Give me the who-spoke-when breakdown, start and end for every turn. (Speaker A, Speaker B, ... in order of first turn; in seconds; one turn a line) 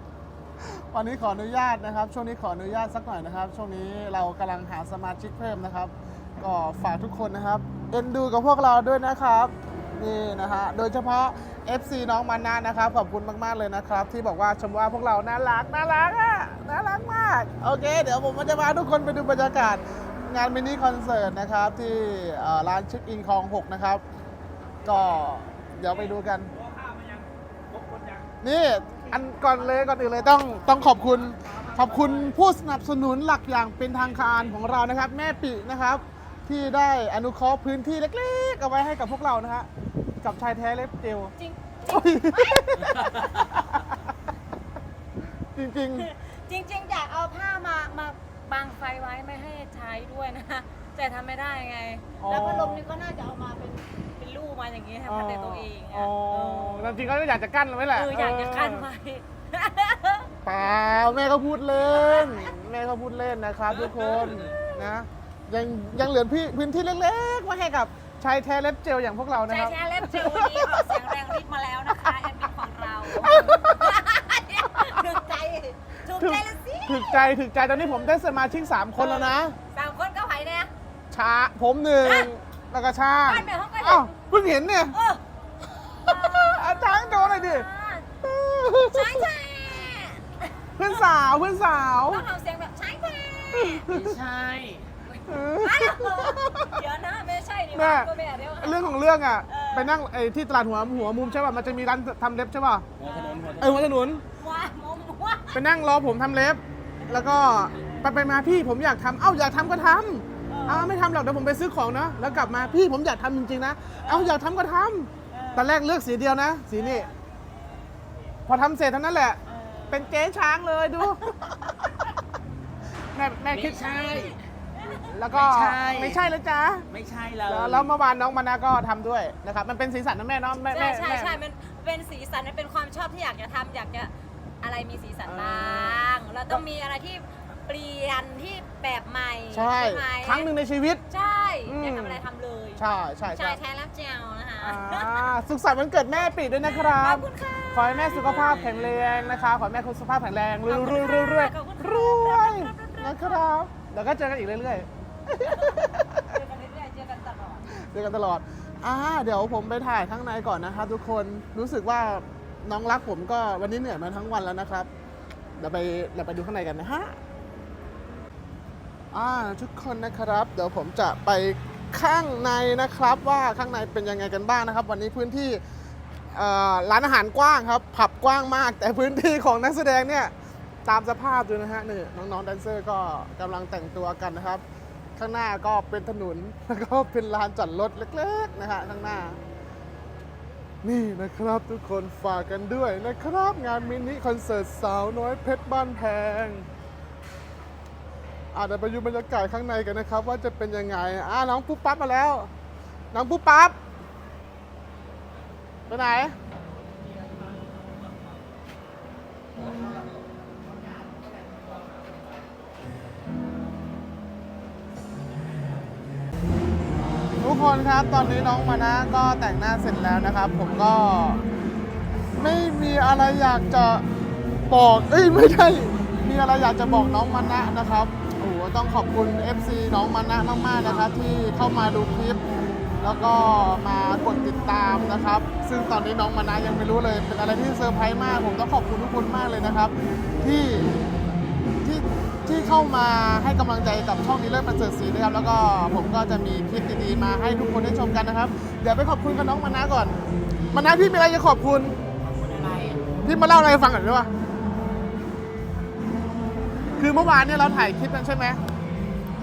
Speaker A: 0.6-24.0
Speaker A: 24.8-26.5
Speaker A: 28.4-39.7
Speaker A: 40.2-41.3
Speaker B: 41.4-43.2
Speaker A: 41.9-43.9
Speaker A: 45.5-46.1
Speaker B: 46.0-57.0
Speaker A: 52.2-52.8
Speaker A: 55.0-58.9
Speaker B: 57.9-60.3
Speaker A: 60.4-71.0
Speaker B: 61.9-62.5
Speaker B: 63.7-64.9
Speaker B: 69.5-78.1
Speaker A: 72.0-72.5
Speaker A: 73.1-74.0
Speaker A: 76.2-79.5
Speaker B: 79.0-80.7
Speaker A: 81.1-85.0
Speaker B: 82.0-82.3
Speaker B: 83.2-84.1
Speaker B: 84.9-85.2
Speaker A: 85.9-87.7
Speaker B: 86.0-88.0
Speaker A: 88.2-89.3
Speaker B: 88.9-91.0
Speaker A: 90.8-92.2
Speaker B: 92.1-93.9
Speaker A: 93.5-94.2
Speaker C: 93.9-94.8
Speaker A: 95.2-96.8
Speaker B: 95.5-99.9
Speaker A: 97.7-102.8
Speaker B: 101.2-101.6
Speaker B: 103.0-103.8
Speaker C: 103.0-103.6
Speaker A: 103.6-104.2
Speaker B: 104.4-105.6
Speaker A: 105.5-117.1
Speaker B: 110.5-110.9
Speaker B: 112.4-112.8
Speaker B: 114.0-114.3
Speaker B: 115.3-115.7
Speaker B: 116.8-117.1
Speaker A: 118.5-119.4
Speaker B: 119.5-120.1
Speaker A: 119.9-121.9
Speaker A: 123.1-124.1
Speaker C: 123.5-124.4
Speaker B: 123.6-125.1
Speaker A: 125.0-126.9
Speaker C: 125.3-126.2
Speaker C: 126.9-127.9
Speaker A: 127.5-131.4
Speaker B: 130.6-140.5
Speaker A: 135.2-136.0
Speaker A: 139.5-141.0
Speaker B: 141.1-145.3
Speaker A: 141.7-142.2
Speaker A: 142.8-143.6
Speaker A: 144.6-156.3
Speaker B: 146.6-148.6
Speaker C: 148.1-149.3
Speaker B: 150.7-153.4
Speaker B: 155.4-157.6
Speaker A: 157.7-164.9
Speaker A: 165.6-167.2
Speaker A: 169.1-175.6
Speaker A: 176.3-180.3
Speaker A: 180.8-184.6
Speaker A: 185.2-189.4
Speaker A: 190.8-196.7
Speaker A: 198.5-202.5
Speaker A: 203.1-203.8
Speaker A: 205.9-206.3
Speaker A: 217.4-221.4
Speaker A: 222.4-224.0
Speaker A: 224.7-232.4
Speaker A: 233.0-240.9
Speaker A: 241.8-250.2
Speaker A: 250.7-252.0
Speaker C: 252.3-253.0
Speaker A: 253.2-254.3
Speaker A: 257.0-258.6